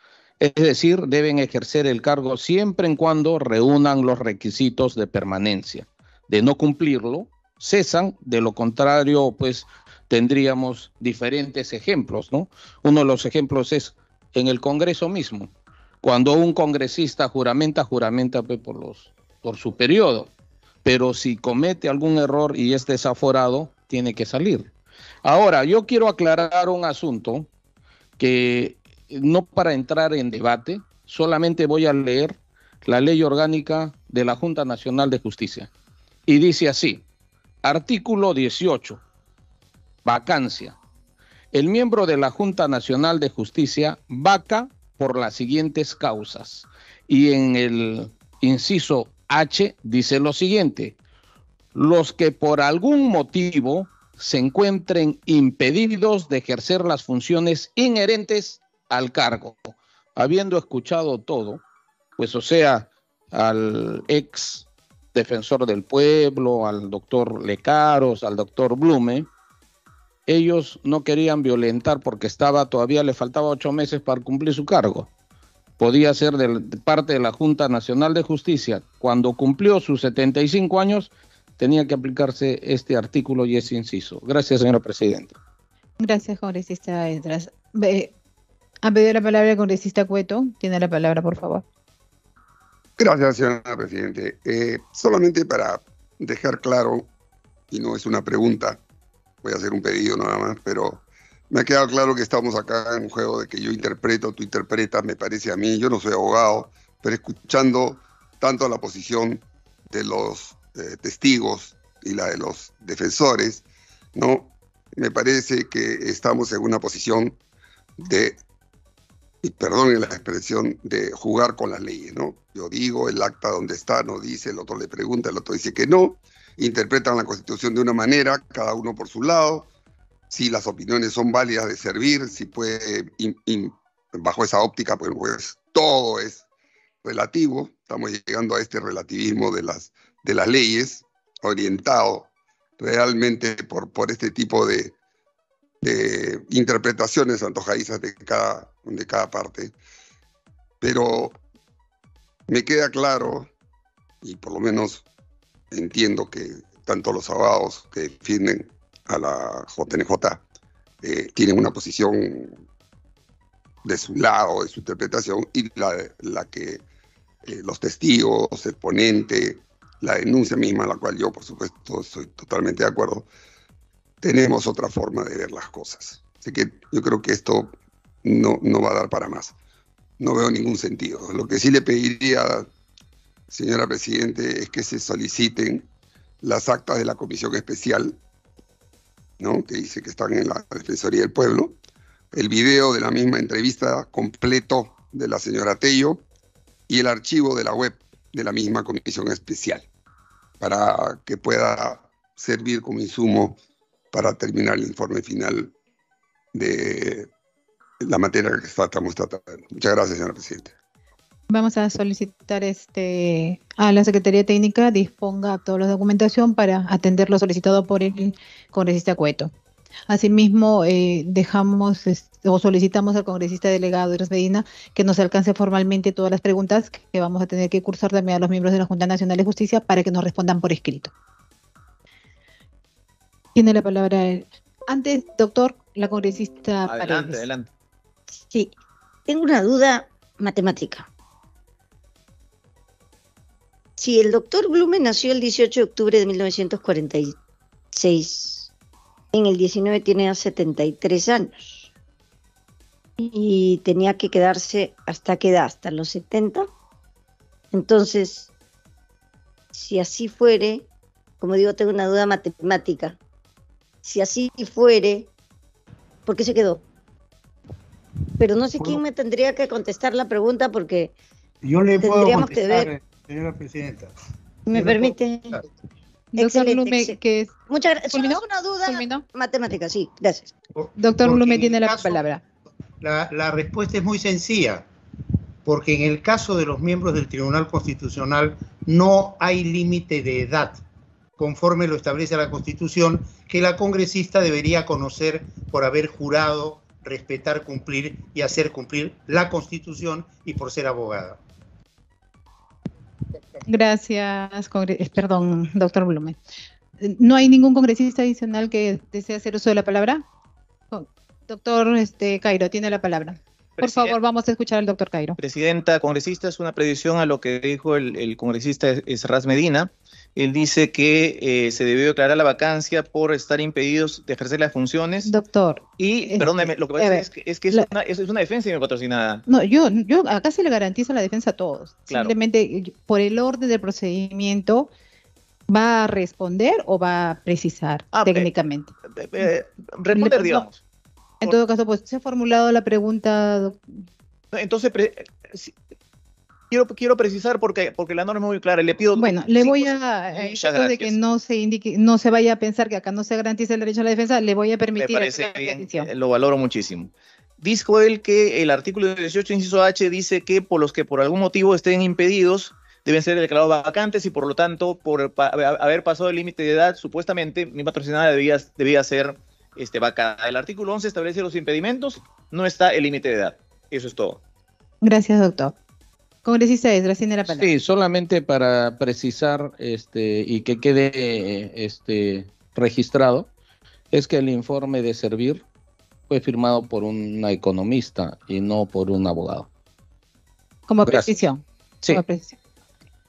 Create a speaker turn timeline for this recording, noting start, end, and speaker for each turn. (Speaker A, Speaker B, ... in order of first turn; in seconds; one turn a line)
Speaker A: 0.4-15.5
Speaker A: 16.0-20.3
Speaker A: 20.8-24.7
Speaker A: 25.2-27.5
Speaker A: 28.2-35.7
Speaker A: 36.3-37.0
Speaker A: 37.6-39.0
Speaker A: 40.0-40.8
Speaker A: 41.5-51.0
Speaker A: 51.8-61.6
Speaker A: 62.2-69.3
Speaker A: 70.3-75.1
Speaker A: 75.8-85.4
Speaker B: 86.0-88.1
Speaker B: 88.8-91.6
Speaker C: 93.0-97.1
Speaker C: 97.7-98.8
Speaker C: 99.4-113.6
Speaker C: 114.2-117.4
Speaker C: 118.0-118.4
Speaker C: 119.4-129.7
Speaker C: 130.3-136.4
Speaker C: 137.0-144.9
Speaker C: 145.8-149.7
Speaker C: 150.8-151.4
Speaker C: 152.5-153.5
Speaker C: 154.2-155.0
Speaker C: 155.7-160.4
Speaker C: 161.0-162.6
Speaker C: 163.8-166.8
Speaker C: 167.4-173.3
Speaker C: 174.2-179.5
Speaker C: 180.2-182.7
Speaker C: 183.5-185.9
Speaker C: 186.4-188.2
Speaker C: 189.4-191.8
Speaker C: 192.3-196.2
Speaker C: 196.9-199.9
Speaker C: 200.6-203.6
Speaker C: 204.1-205.7
Speaker C: 206.5-207.3
Speaker C: 208.0-210.7
Speaker B: 211.5-219.5
Speaker B: 220.1-231.1
Speaker B: 233.6-237.4
Speaker D: 236.8-237.7
Speaker E: 238.3-238.7
Speaker E: 239.3-241.1
Speaker E: 244.0-247.4
Speaker E: 247.9-248.7
Speaker E: 249.3-251.9
Speaker E: 253.2-256.7
Speaker E: 257.7-258.5
Speaker E: 259.7-260.9
Speaker E: 261.4-263.2
Speaker E: 264.0-265.3
Speaker E: 266.3-266.8
Speaker E: 268.4-271.1
Speaker F: 271.6-274.1
Speaker E: 272.0-272.9
Speaker E: 274.7-275.6
Speaker F: 274.7-275.6
Speaker B: 276.3-277.6
Speaker E: 276.4-277.2
Speaker E: 277.7-280.5
Speaker B: 278.1-279.2
Speaker F: 280.8-282.2
Speaker B: 281.0-282.4
Speaker F: 283.0-284.9
Speaker F: 285.6-290.8
Speaker F: 291.4-301.4
Speaker B: 303.7-306.4
Speaker B: 307.0-310.2
Speaker B: 310.9-315.4
Speaker D: 313.8-314.2
Speaker D: 315.4-325.3
Speaker B: 325.2-327.9
Speaker D: 326.0-329.4
Speaker B: 329.5-334.9
Speaker D: 332.1-332.4
Speaker B: 335.7-338.9
Speaker D: 338.1-338.5
Speaker D: 339.1-340.8
Speaker B: 340.1-340.7
Speaker B: 341.4-343.8
Speaker D: 344.5-345.7
Speaker D: 346.7-351.2
Speaker B: 349.2-356.1
Speaker D: 355.0-374.4
Speaker B: 375.0-375.8
Speaker B: 376.4-377.6
Speaker A: 377.5-383.5
Speaker A: 384.1-385.6
Speaker A: 386.3-389.7
Speaker B: 390.9-392.6